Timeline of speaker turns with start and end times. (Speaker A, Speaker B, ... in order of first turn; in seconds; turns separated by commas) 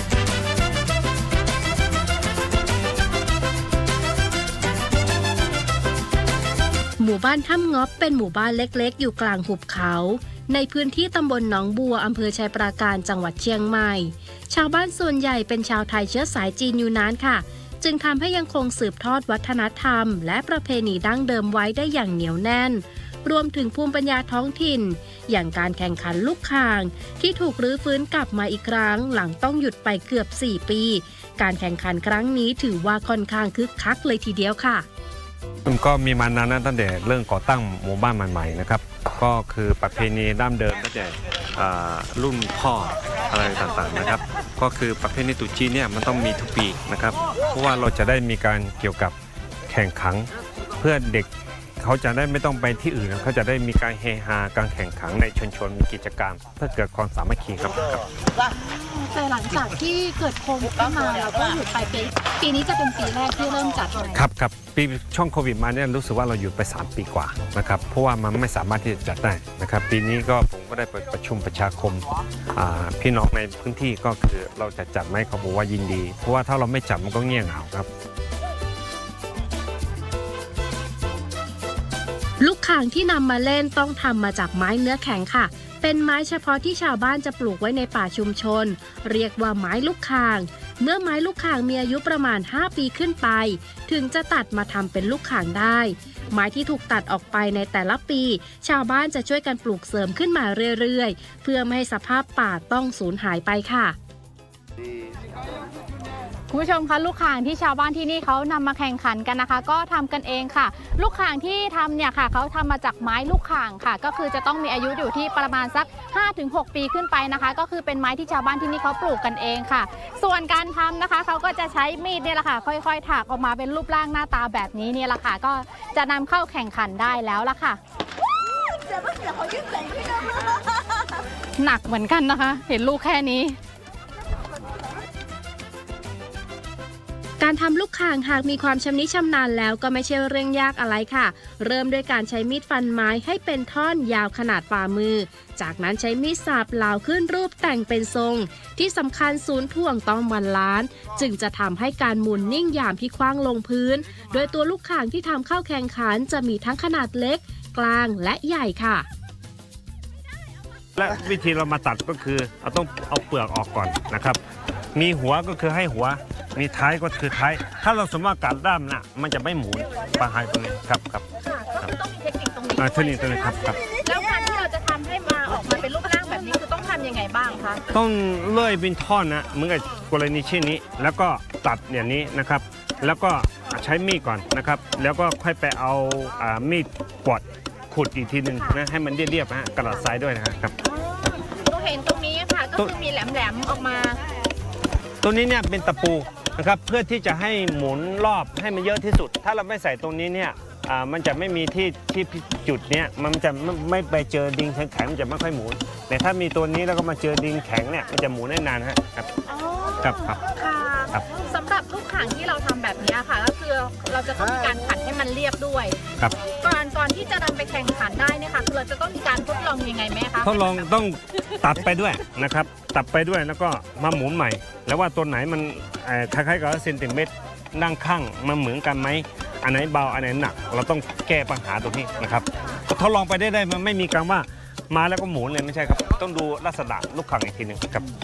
Speaker A: 7.0-34.9, Speaker B: 35.6-49.1, Speaker B: 49.7-50.3, Speaker B: 50.8-58.0, Speaker C: 58.5-64.2, Speaker B: 64.2-77.9, Speaker A: 82.4-104.0, Speaker C: 106.5-127.8, Speaker C: 131.6-133.6, Speaker A: 137.4-159.1, Speaker B: 160.9-164.4, Speaker B: 164.9-171.3, Speaker C: 171.4-177.8, Speaker B: 172.8-173.8, Speaker B: 177.9-190.7, Speaker C: 188.5-188.8, Speaker C: 190.8-194.2, Speaker B: 195.2-209.3, Speaker C: 209.5-220.9, Speaker B: 210.0-210.4, Speaker B: 220.4-238.1